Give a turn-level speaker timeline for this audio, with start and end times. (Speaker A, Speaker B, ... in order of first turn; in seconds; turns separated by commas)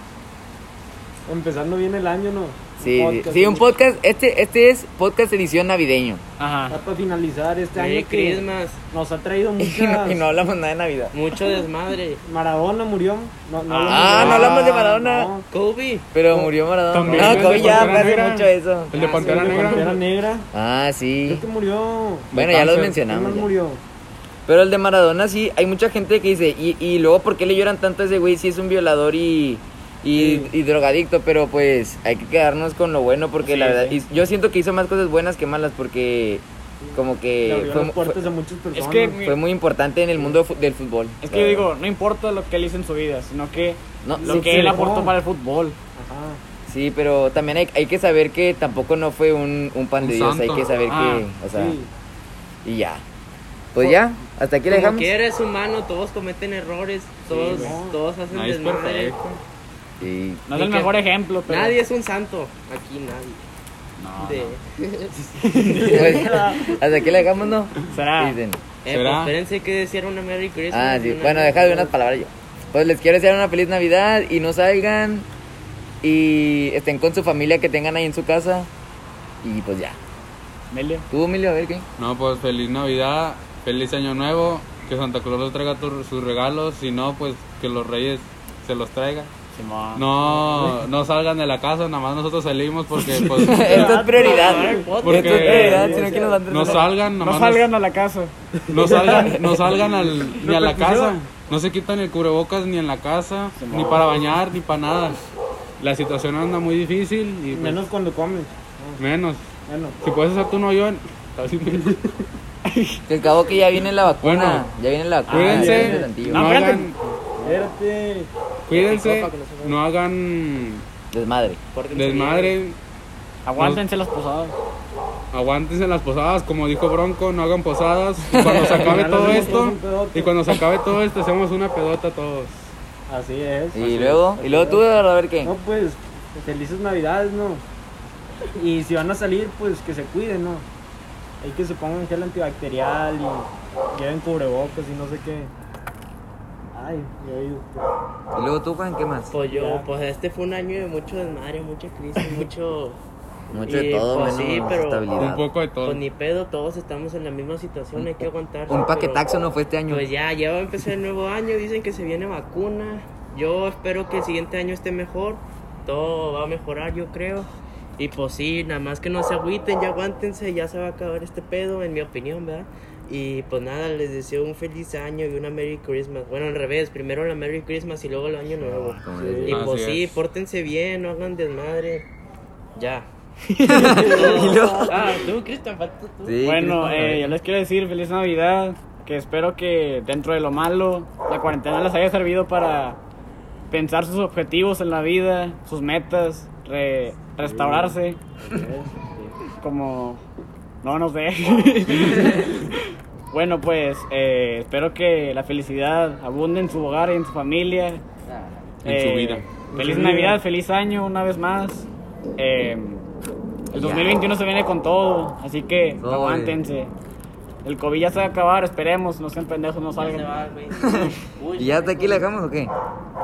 Speaker A: 1.2-3.7, Speaker B: 2.8-6.2, Speaker C: 6.4-6.8, Speaker A: 6.7-10.2, Speaker D: 7.7-8.8, Speaker B: 9.6-11.1, Speaker D: 11.1-12.2, Speaker A: 12.2-15.4, Speaker C: 13.7-14.5, Speaker B: 13.8-15.3, Speaker E: 14.2-14.7, Speaker D: 15.5-16.1, Speaker B: 16.1-18.9, Speaker E: 16.9-20.0, Speaker C: 17.1-17.6, Speaker A: 17.1-18.3, Speaker D: 18.9-19.8, Speaker A: 19.0-20.5, Speaker B: 20.5-21.4, Speaker A: 21.2-22.4, Speaker E: 22.3-22.9, Speaker B: 22.3-23.5, Speaker A: 22.9-23.8, Speaker B: 24.5-38.3, Speaker A: 30.1-30.5, Speaker C: 33.4-34.0, Speaker A: 36.8-39.2, Speaker C: 38.7-39.4, Speaker B: 39.2-41.7, Speaker C: 41.2-45.8, Speaker B: 44.0-44.8, Speaker A: 44.2-45.1, Speaker A: 46.0-46.4, Speaker B: 46.7-51.8, Speaker E: 50.0-50.7, Speaker C: 50.9-51.3, Speaker A: 51.5-51.9, Speaker B: 52.6-53.0, Speaker B: 53.7-55.1, Speaker D: 54.7-59.2, Speaker C: 57.3-57.8, Speaker A: 57.4-58.0, Speaker E: 58.3-59.4, Speaker B: 60.0-60.4, Speaker C: 60.5-61.8, Speaker D: 60.5-63.4, Speaker C: 64.0-64.5, Speaker D: 64.2-66.1, Speaker C: 65.4-66.3, Speaker A: 65.7-66.8, Speaker B: 65.9-68.6, Speaker C: 67.9-68.4, Speaker D: 68.8-71.9, Speaker E: 68.9-69.3, Speaker B: 70.7-75.3, Speaker B: 76.0-78.7, Speaker B: 79.4-80.0, Speaker C: 80.7-81.0, Speaker B: 81.1-81.8, Speaker E: 82.0-89.3, Speaker C: 89.5-90.8, Speaker E: 90.0-93.9, Speaker B: 93.1-96.9, Speaker A: 93.4-96.7, Speaker D: 94.0-96.2, Speaker E: 95.0-95.9, Speaker E: 96.4-97.7, Speaker C: 97.2-98.3, Speaker A: 98.7-101.1, Speaker E: 98.7-105.2, Speaker C: 103.5-104.1, Speaker E: 105.8-107.9, Speaker A: 107.5-109.0, Speaker E: 109.0-109.5, Speaker A: 109.7-110.0, Speaker E: 110.0-112.1, Speaker C: 112.7-113.0, Speaker B: 113.1-116.6, Speaker E: 114.2-114.7, Speaker C: 115.3-117.6, Speaker E: 115.3-117.0, Speaker A: 115.4-116.1, Speaker A: 117.4-118.3, Speaker E: 118.7-120.8, Speaker D: 118.7-119.8, Speaker B: 121.1-121.6, Speaker D: 121.7-122.5, Speaker E: 121.9-122.8, Speaker C: 123.5-124.6, Speaker E: 123.6-123.8, Speaker E: 125.3-132.7, Speaker B: 128.4-129.0, Speaker A: 128.7-130.4, Speaker D: 129.2-129.5, Speaker A: 133.1-134.8, Speaker B: 133.7-135.6, Speaker A: 135.4-137.6, Speaker A: 138.5-140.7, Speaker A: 141.4-145.5, Speaker A: 146.7-147.9, Speaker B: 148.3-149.3, Speaker D: 149.3-153.0, Speaker A: 149.5-149.9, Speaker B: 153.5-155.4, Speaker A: 153.5-153.8, Speaker D: 153.7-155.1, Speaker E: 155.2-156.0, Speaker D: 155.8-159.2, Speaker B: 157.9-160.1, Speaker D: 159.9-167.5, Speaker D: 168.0-182.0, Speaker B: 178.6-179.6, Speaker A: 179.1-179.6, Speaker E: 179.5-180.2, Speaker D: 182.8-183.1, Speaker B: 183.4-185.2, Speaker A: 183.7-184.6, Speaker D: 183.7-186.4, Speaker B: 186.2-187.3, Speaker C: 186.4-193.0, Speaker C: 193.7-198.2, Speaker A: 197.4-199.3, Speaker C: 199.6-200.2, Speaker C: 200.8-208.0, Speaker E: 208.8-209.5, Speaker C: 208.8-211.8, Speaker A: 209.7-210.4, Speaker C: 212.4-213.1, Speaker C: 213.7-216.9, Speaker B: 213.7-214.3, Speaker B: 216.0-216.6, Speaker C: 217.6-220.3, Speaker D: 219.9-222.2, Speaker B: 220.8-222.7